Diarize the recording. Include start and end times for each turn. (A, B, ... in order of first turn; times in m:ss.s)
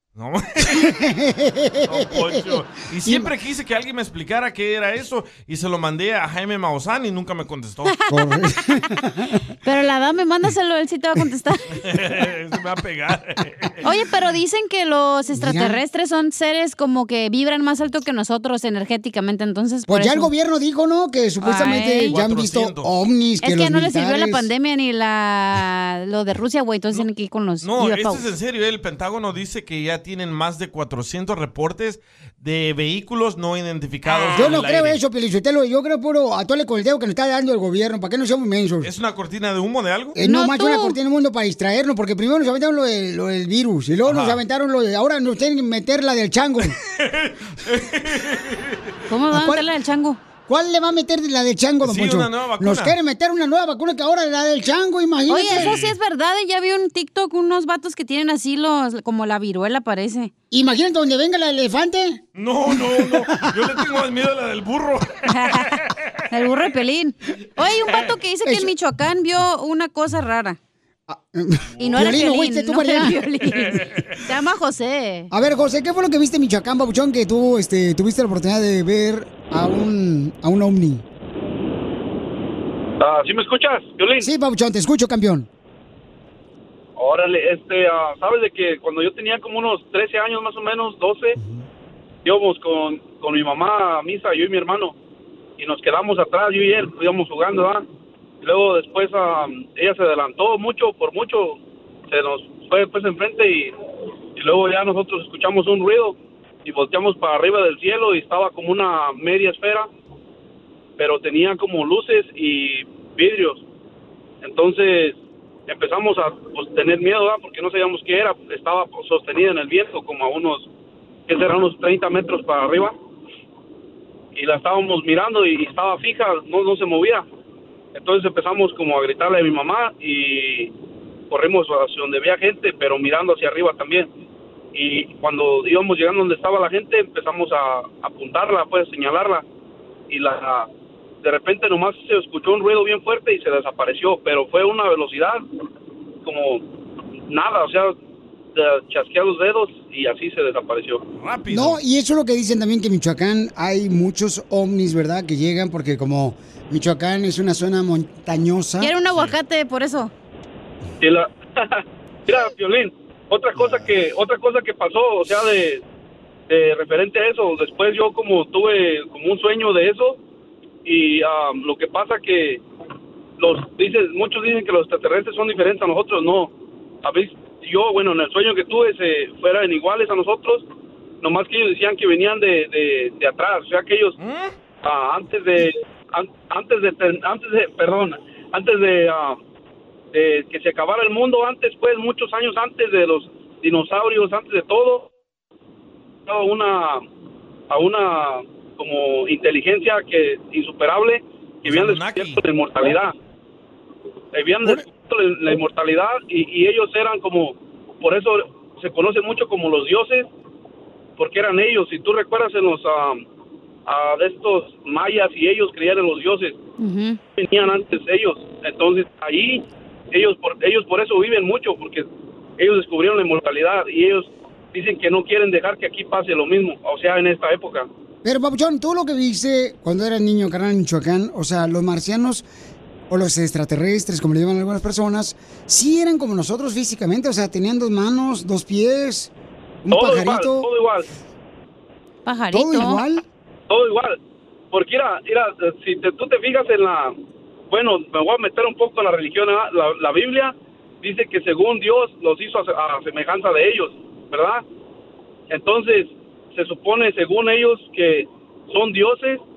0:00.2-0:01.0 A
0:00.7-0:03.3 B
0:01.9-0:08.0 A
0:08.1-0:09.4 B
0:09.6-0:11.7 C
0:11.8-0:13.8 A
0:13.8-0:20.3 C
0:15.4-0:15.8 B
0:19.9-0:24.5 B
0:21.4-0:22.2 C
0:22.1-0:22.9 A
0:23.4-0:28.2 C
0:27.6-0:35.0 A
0:34.3-0:38.9 B
0:38.8-0:40.2 A
0:40.2-0:46.8 B
0:40.2-0:41.0 C
0:44.0-0:44.4 A
0:47.0-0:48.9 A
0:49.1-0:50.2 C
0:49.3-0:49.6 B
0:50.5-0:55.8 B
0:51.8-0:53.0 A
0:55.3-1:00.3 C
0:55.5-0:56.0 A
1:00.5-1:03.7 B
1:02.4-1:06.2 A
1:05.3-1:10.6 C
1:08.4-1:08.7 B
1:11.1-1:13.2 B
1:11.8-1:15.3 C
1:13.5-1:14.2 A
1:15.3-1:21.0 B
1:23.0-1:24.3 D
1:24.2-1:25.5 B
1:27.0-1:31.4 D
1:31.4-1:31.6 B
1:32.2-1:35.0 D
1:35.6-1:37.8 D
1:38.4-1:41.6 D
1:42.1-1:43.8 D
1:44.4-1:49.9 D
1:51.0-1:53.6 D
1:54.4-2:00.7 D
2:01.3-2:02.9 D
2:04.3-2:07.2 D
2:07.9-2:10.7 D
2:11.3-2:14.1 D
2:14.7-2:19.4 D
2:20.1-2:20.7 D
2:21.2-2:25.4 D
2:26.2-2:26.6 D
2:27.3-2:28.0 D
2:28.6-2:31.0 D
2:31.2-2:31.8 A
2:31.5-2:38.9 B
2:38.8-2:40.1 C
2:41.0-2:45.8 D
2:46.5-2:50.2 D
2:50.8-2:52.6 D
2:53.4-2:56.5 D
2:57.0-3:00.6 D
3:01.2-3:04.2 D
3:04.2-3:04.5 A
3:04.8-3:09.4 D
3:10.1-3:15.1 D
3:16.3-3:17.0 D
3:17.7-3:23.1 D
3:21.6-3:22.4 A
3:24.3-3:30.3 D
3:31.2-3:33.2 D
3:33.9-3:36.6 D
3:36.8-3:37.2 C
3:37.4-3:42.1 D
3:42.6-3:47.9 D
3:48.2-3:52.5 B
3:53.1-3:59.3 B
3:59.8-4:00.7 B
3:59.9-4:01.1 D
4:02.2-4:03.0 C
4:02.5-4:03.2 B
4:03.7-4:04.2 D
4:04.7-4:07.1 D
4:07.7-4:14.6 D
4:15.5-4:19.4 D